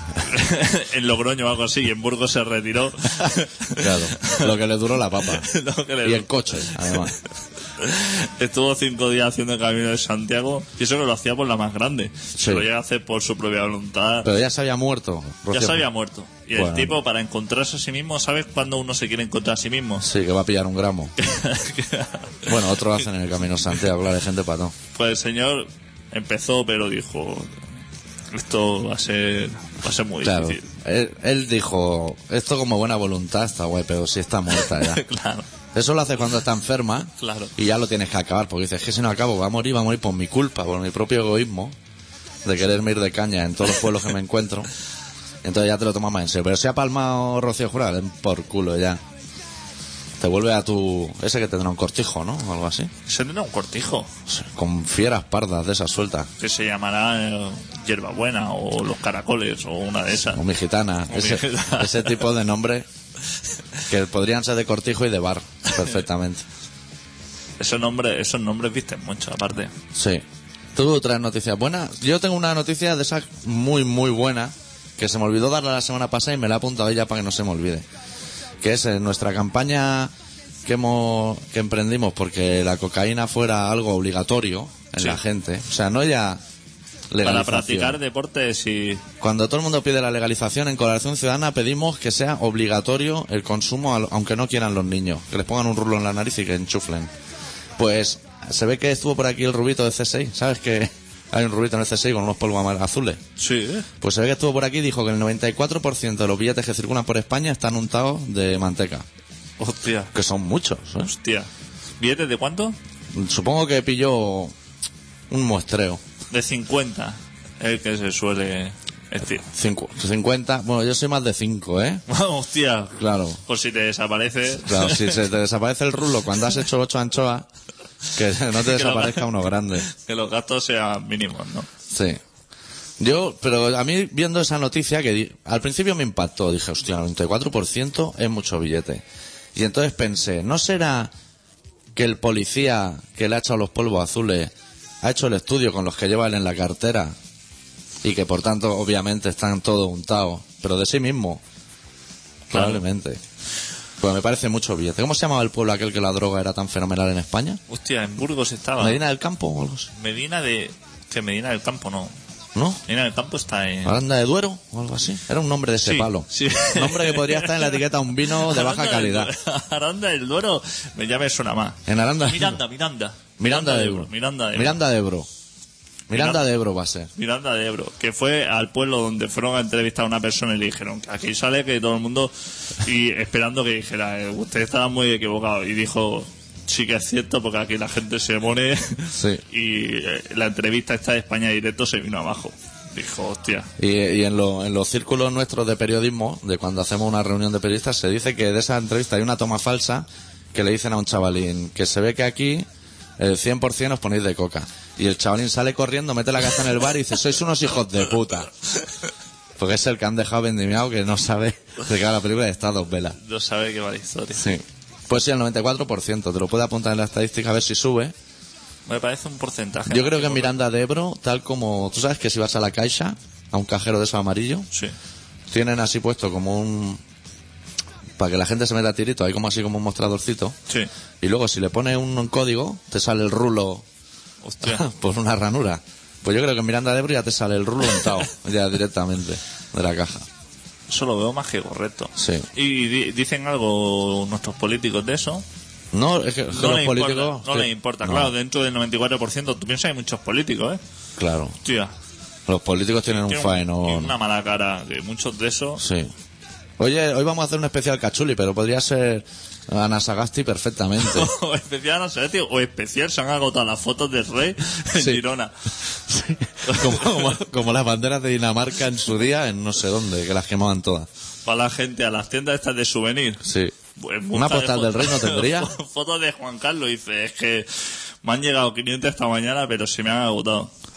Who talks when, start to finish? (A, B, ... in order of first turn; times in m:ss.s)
0:00.2-0:04.5 A
0:03.8-0:05.5 B
0:05.2-0:07.2 A
0:06.0-0:07.2 B
0:07.8-0:14.3 A
0:12.4-0:12.7 B
0:14.2-0:15.9 B
0:15.5-0:20.1 A
0:16.6-0:17.0 B
0:20.0-0:21.1 B
0:21.2-0:22.4 A
0:22.4-0:24.8 B
0:25.0-0:27.5 A
0:28.3-0:30.7 A
0:30.2-0:35.0 B
0:34.5-0:35.5 A
0:35.7-0:41.8 B
0:37.2-0:37.5 A
0:42.4-0:44.7 B
0:45.4-0:49.0 B
0:50.2-0:52.9 B
0:53.1-0:54.1 A
0:54.3-0:56.3 B
0:56.4-1:00.4 A
1:00.3-1:02.9 B
1:01.1-1:02.3 A
1:03.9-1:06.5 B
1:07.6-1:09.7 A
1:09.9-1:10.2 B
1:10.8-1:17.9 B
1:18.6-1:20.1 B
1:20.7-1:26.4 B
1:27.1-1:28.0 B
1:27.2-1:29.0 A
1:29.2-1:37.1 B
1:37.8-1:43.2 B
1:43.4-1:43.9 A
1:44.0-1:49.1 B
1:49.6-1:50.1 A
1:50.1-1:51.1 B
1:51.0-1:51.5 A
1:52.0-1:52.8 A
1:53.1-1:54.5 B
1:55.3-1:56.0 B
1:56.3-1:59.5 A
1:59.4-2:02.0 B
2:02.1-2:05.2 A
2:03.0-2:03.4 B
2:04.6-2:07.5 B
2:08.2-2:09.8 B
2:08.6-2:11.7 A
2:11.9-2:12.2 B
2:13.0-2:19.0 B
2:19.6-2:21.1 B
2:22.0-2:27.2 B
2:28.0-2:31.4 B
2:32.5-2:32.8 A
2:32.5-2:33.2 B
2:34.0-2:37.6 B
2:37.7-2:39.0 A
2:38.8-2:39.9 B
2:40.0-2:42.2 A
2:42.6-2:42.8 B
2:42.9-2:44.0 A
2:43.8-2:49.3 B
2:45.8-2:54.8 A
2:51.9-2:52.6 B
2:53.4-2:55.3 B
2:56.1-2:57.1 B
2:56.2-2:56.4 A
2:57.2-3:13.7 A
3:09.2-3:09.4 B
3:13.8-3:22.7 B
3:23.2-3:28.5 B
3:29.6-3:33.2 B
3:33.2-3:34.5 A
3:34.4-3:38.1 B
3:38.9-3:40.6 A
3:39.9-3:44.7 B
3:45.5-3:47.0 B
3:48.2-3:50.6 B
3:51.2-3:53.8 B
3:54.4-3:54.8 A
3:54.6-4:00.3 B
4:00.9-4:05.4 A
4:02.2-4:02.5 B
4:05.9-4:08.3 B
4:06.5-4:10.8 A
4:11.2-4:11.6 B
4:11.6-4:11.9 A
4:12.5-4:14.1 B
4:13.2-4:15.8 A
4:15.8-4:16.1 B
4:16.8-4:21.3 B
4:21.0-4:25.6 A
4:24.9-4:25.2 B
4:26.0-4:31.1 B
4:26.6-4:27.4 A
4:31.5-4:33.4 A
4:33.4-4:33.8 B
4:34.0-4:37.7 A
4:34.3-4:35.7 B
4:38.2-4:40.7 A